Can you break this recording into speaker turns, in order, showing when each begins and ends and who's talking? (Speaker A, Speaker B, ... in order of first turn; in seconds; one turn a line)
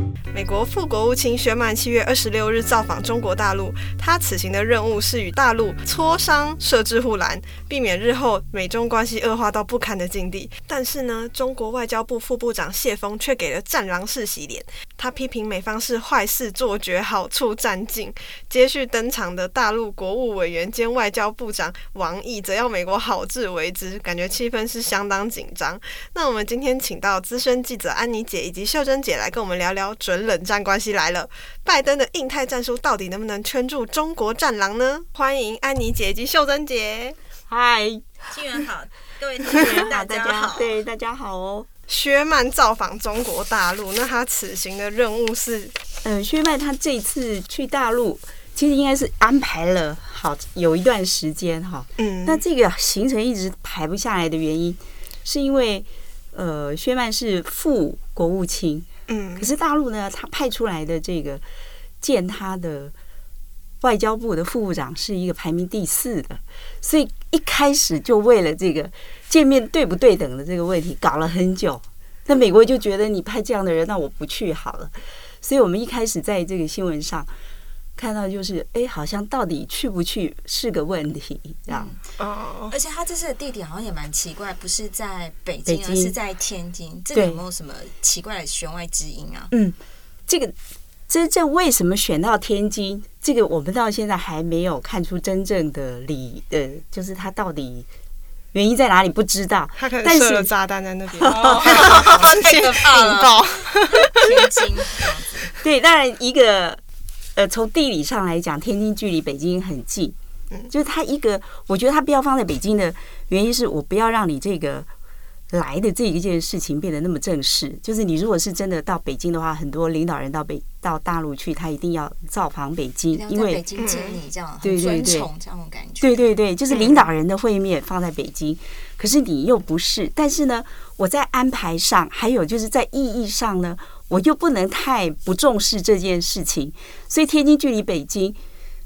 Speaker A: 0.3-37.2
Speaker B: 37.5-38.2
Speaker C: 38.3-40.7
Speaker B: 39.6-41.7
Speaker A: 41.9-45.8
Speaker B: 46.0-61.4
Speaker A: 52.0-52.4
Speaker A: 59.1-59.5
Speaker B: 62.0-62.9
Speaker B: 63.8-77.3
Speaker B: 78.0-81.9
Speaker C: 81.7-82.0
Speaker A: 82.2-82.7
Speaker C: 82.7-89.5
Speaker B: 85.7-86.1
Speaker B: 87.1-87.4
Speaker B: 89.5-90.5
Speaker B: 91.1-97.9
Speaker B: 98.5-100.5
Speaker A: 99.8-104.3
Speaker B: 101.2-102.1
Speaker C: 101.2-105.5
Speaker B: 105.6-106.8
Speaker B: 107.4-110.2
Speaker B: 110.7-114.9
Speaker B: 115.5-123.6
Speaker C: 123.1-126.3
Speaker A: 123.8-124.2
Speaker B: 124.6-125.3
Speaker B: 126.0-138.4
Speaker A: 126.7-127.0